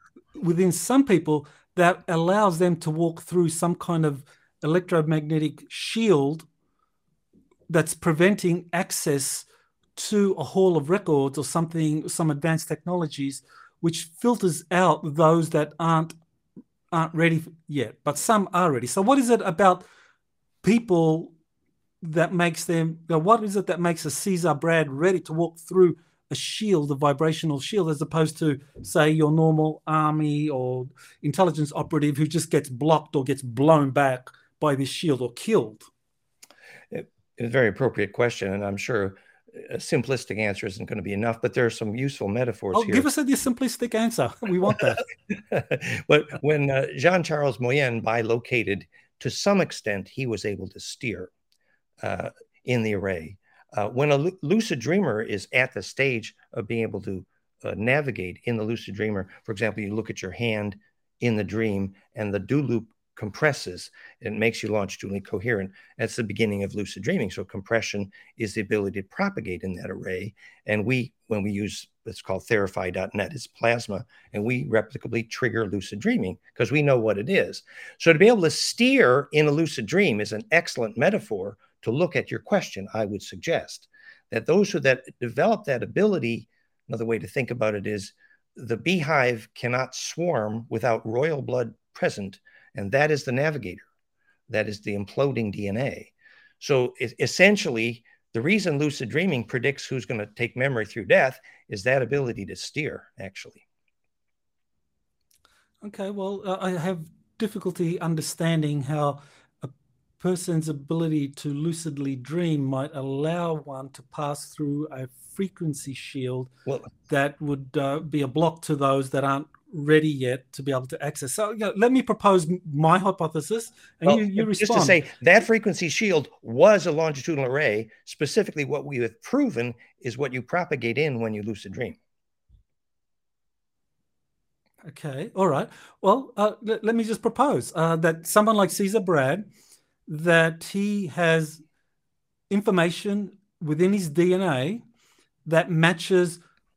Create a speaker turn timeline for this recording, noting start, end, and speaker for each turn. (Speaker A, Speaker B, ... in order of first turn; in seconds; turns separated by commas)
Speaker A: 0.4-6.5, Speaker A: 7.7-16.1, Speaker A: 16.9-19.9, Speaker A: 20.6-21.3, Speaker A: 22.0-35.9, Speaker B: 36.9-43.1, Speaker A: 42.7-45.0, Speaker B: 45.3-51.3, Speaker B: 52.0-93.9, Speaker B: 94.5-103.6, Speaker A: 105.8-116.5, Speaker A: 117.1-125.0, Speaker B: 124.0-132.0, Speaker A: 134.8-139.5, Speaker A: 140.1-141.6, Speaker A: 142.5-144.8, Speaker A: 145.4-146.4